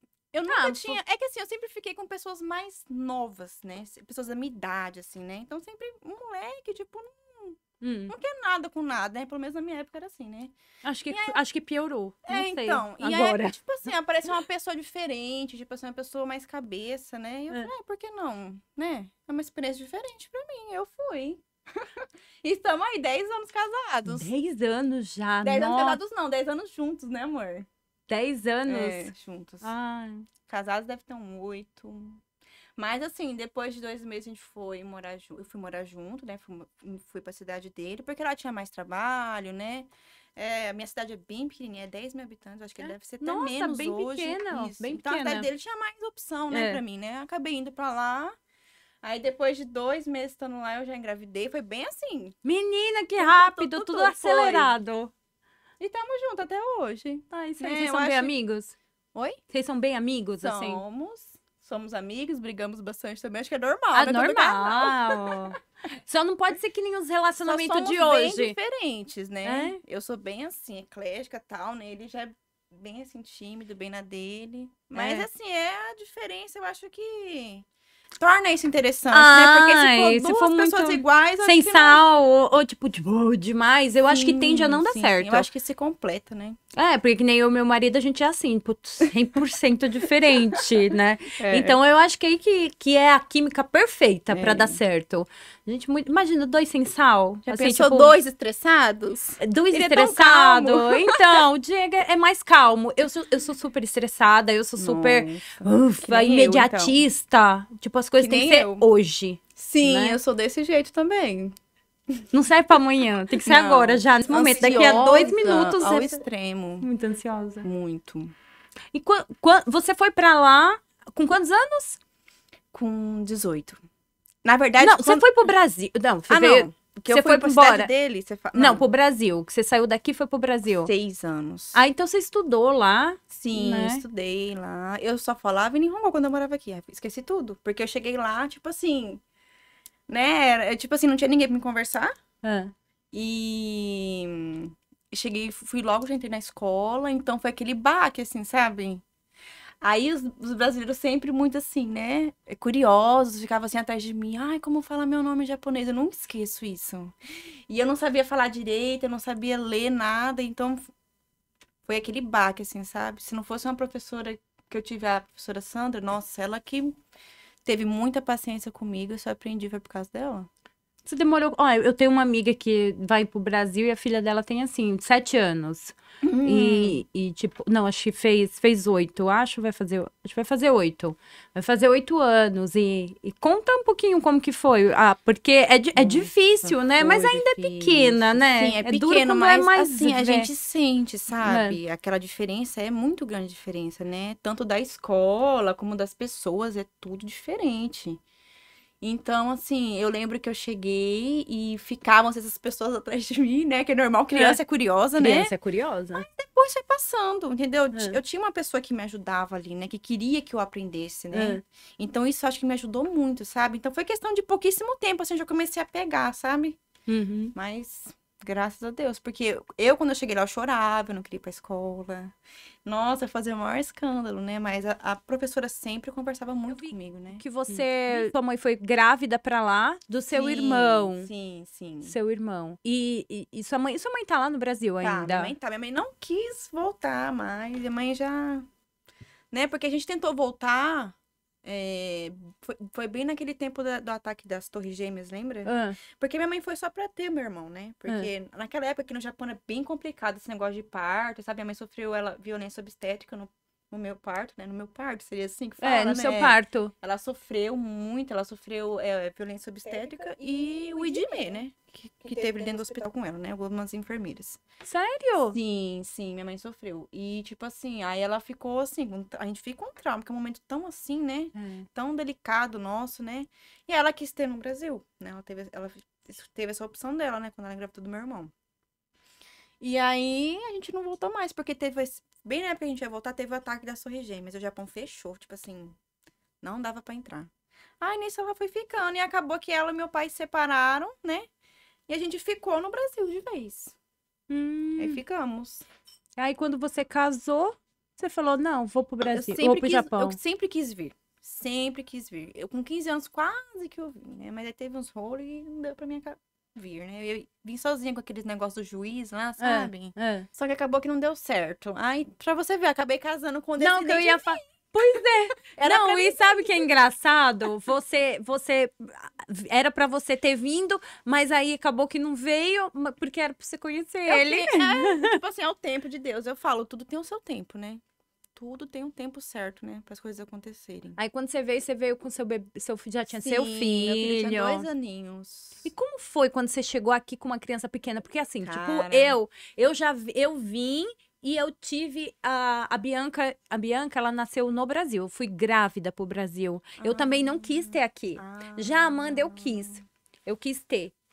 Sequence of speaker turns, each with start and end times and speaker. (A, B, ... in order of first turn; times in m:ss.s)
0:00.3-0:10.5 A
0:00.4-0:01.0 B
0:07.8-0:08.1 B
0:10.8-0:13.6 B
0:11.1-0:11.4 A
0:12.2-0:24.3 A
0:24.1-0:26.0 B
0:25.4-0:27.7 A
0:28.1-0:30.3 B
0:28.6-0:29.7 A
0:30.4-0:32.2 A
0:32.8-0:48.4 A
0:42.8-0:45.5 B
0:46.5-0:46.8 B
0:49.0-0:52.3 A
0:52.4-0:55.1 B
0:53.2-0:54.8 A
0:55.8-0:58.3 A
0:57.3-0:58.8 B
0:59.1-0:59.4 A
0:59.5-1:00.8 B
1:00.4-1:05.5 A
1:03.9-1:08.6 B
1:07.4-1:17.6 A
1:09.4-1:09.8 B
1:14.9-1:15.3 B
1:18.2-1:22.0 A
1:19.1-1:25.5 B
1:24.0-1:26.6 A
1:26.7-1:38.2 B
1:29.0-1:29.4 A
1:30.0-1:30.7 A
1:31.3-1:31.8 A
1:34.3-1:34.8 A
1:37.4-1:41.4 A
1:39.4-1:50.2 B
1:44.8-1:47.0 A
1:48.2-1:48.9 A
1:49.5-1:51.5 A
1:52.3-1:56.2 B
1:53.4-1:56.9 A
1:56.8-1:57.7 B
1:57.6-1:58.3 A
1:58.9-2:02.0 B
2:02.7-2:03.8 A
2:04.4-2:05.3 A
2:04.8-2:07.9 B
2:06.3-2:08.9 A
2:08.5-2:10.9 B
2:10.8-2:11.8 A
2:11.7-2:14.0 B
2:13.3-2:19.2 A
2:20.1-2:22.1 A
2:22.4-2:22.7 B
2:23.1-2:29.0 A
2:29.8-2:37.1 A
2:37.7-2:40.9 A
2:41.8-2:47.0 A
2:47.6-2:50.5 A
2:51.0-3:10.5 B
2:56.2-2:57.0 A
3:05.9-3:18.2 A
3:11.4-3:11.8 B
3:19.0-3:25.5 A
3:24.3-3:24.6 B
3:25.2-3:26.2 B
3:26.1-3:36.8 A
3:27.9-3:28.2 B
3:31.3-3:31.6 B
3:37.1-3:37.5 B
3:37.5-3:48.3 A
3:46.7-3:51.3 B
3:50.3-3:52.2 A
3:52.0-3:55.6 B
3:55.0-3:58.6 A
3:59.5-4:24.6 A
4:05.6-4:06.0 B
4:15.8-4:16.9 B
4:24.8-4:25.6 B
4:25.5-4:38.5 A
4:31.5-4:31.8 B
4:39.8-4:46.0 A
4:46.6-4:47.5 A
4:48.0-4:51.5 A
4:52.1-4:54.0 A
4:54.5-4:55.2 B
4:55.0-4:55.8 A
4:56.4-5:00.4 B
4:59.2-5:16.9 A
5:09.6-5:10.5 B
5:13.8-5:25.4 B
5:24.2-5:28.0 A
5:28.5-5:31.2 A
5:31.2-5:34.9 B
5:33.3-5:35.9 A
5:35.8-5:51.1 B
5:38.6-5:39.4 A
5:47.0-5:50.0 A